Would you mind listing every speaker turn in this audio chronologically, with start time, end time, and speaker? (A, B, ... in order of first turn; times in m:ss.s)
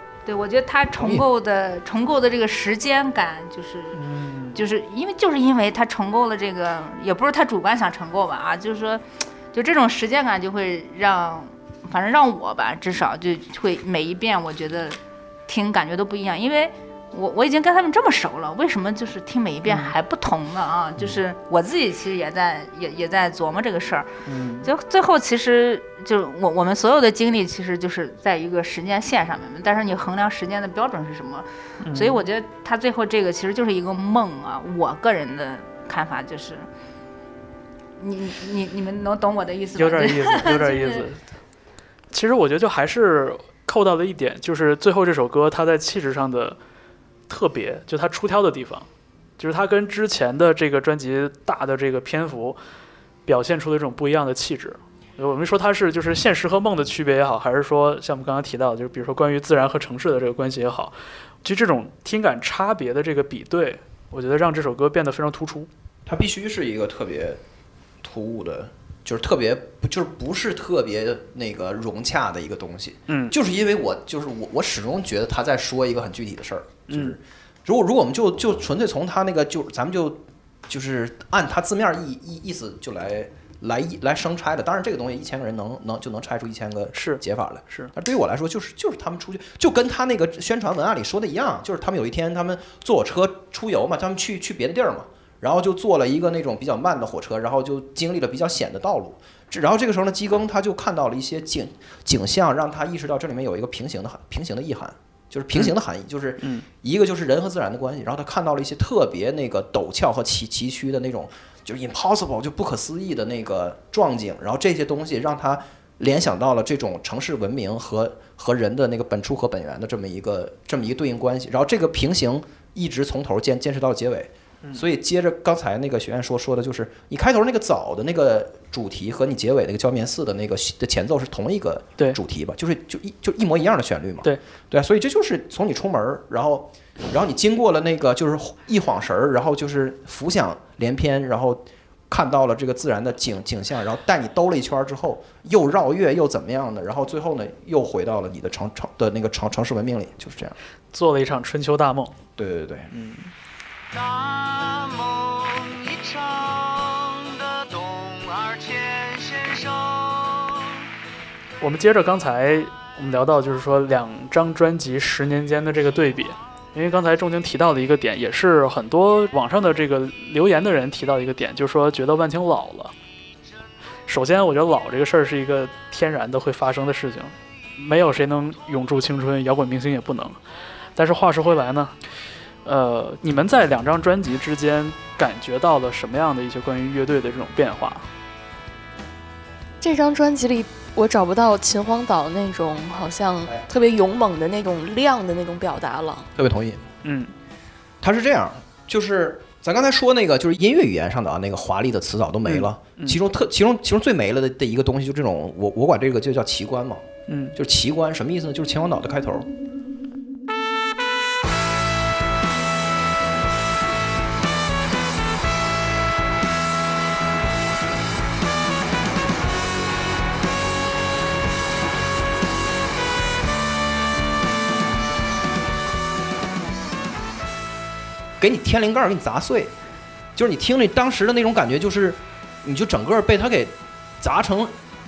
0:00.2-0:04.0 A
0:01.0-0:01.2 B
0:03.9-0:04.6 C
0:04.5-0:24.1 A
0:19.7-0:19.9 C
0:24.2-0:24.7 C
0:24.6-0:36.7 A
0:31.8-0:32.2 C
0:38.0-0:41.0 A
0:39.8-0:41.2 C
0:42.1-0:46.6 C
0:47.3-0:52.6 C
0:53.2-1:05.7 C
1:06.0-1:07.4 B
1:08.0-2:30.6 B
1:13.1-1:13.3 C
1:16.9-1:17.2 C
1:26.9-1:27.9 C
1:46.4-1:46.6 C
2:30.9-2:32.2 C
2:32.4-2:32.9 B
2:32.9-2:33.3 C
2:33.9-2:40.7 D
2:41.6-2:52.9 C
2:54.1-3:00.4 C
3:01.0-3:01.9 C
3:02.6-3:08.1 C
3:09.8-3:16.3 E
3:16.4-3:16.8 B
3:17.0-3:17.3 C
3:18.0-3:29.5 B
3:22.4-3:23.2 C
3:27.3-3:27.5 C
3:48.4-3:49.7 B
3:50.3-3:54.7 B